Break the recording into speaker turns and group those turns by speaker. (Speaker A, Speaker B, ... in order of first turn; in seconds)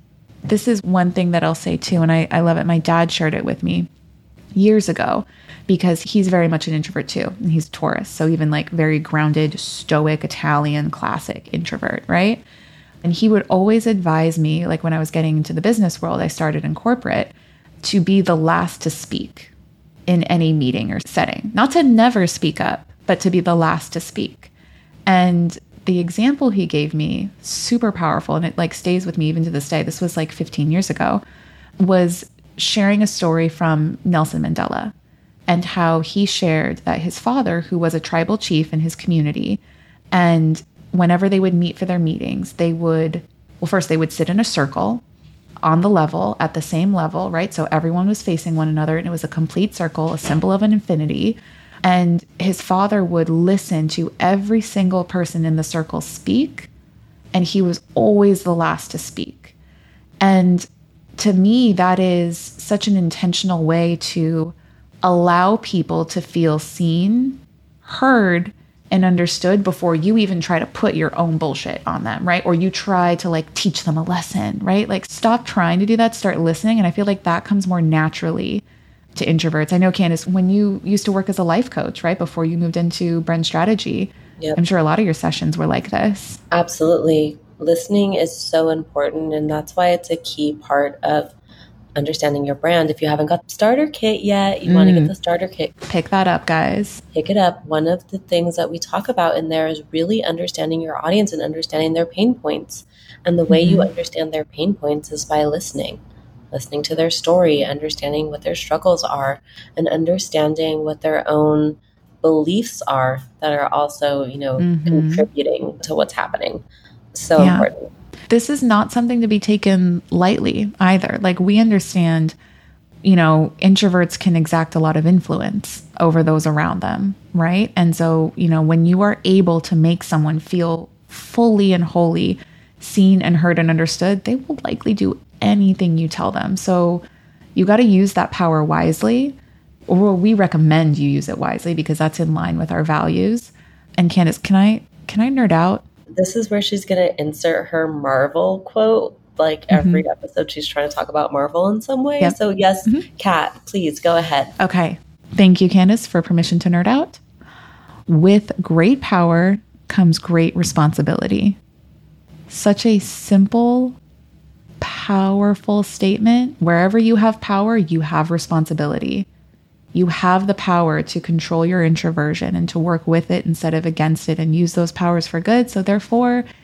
Speaker A: 0.5-3.9, 4.5-12.4, 13.0-19.5, 20.1-24.5, 25.1-31.2, 31.8-34.9, 35.5-39.6, 40.1-45.0, 45.6-56.7, 57.3-59.5, 60.2-78.6, 79.1-86.4, 94.7-95.1, 95.9-97.0, 103.5-103.9, 114.6-115.3, 117.3-117.7, 118.3-122.3, 123.0-137.0, 137.5-139.4, 139.9-145.8, 149.7-150.0, 152.2-153.0, 154.6-157.2, 158.1-161.6, 162.5-164.0, 164.8-169.3, 169.9-176.4
Speaker B: 86.5-91.3, 92.0-95.8, 97.1-117.9, 146.1-154.5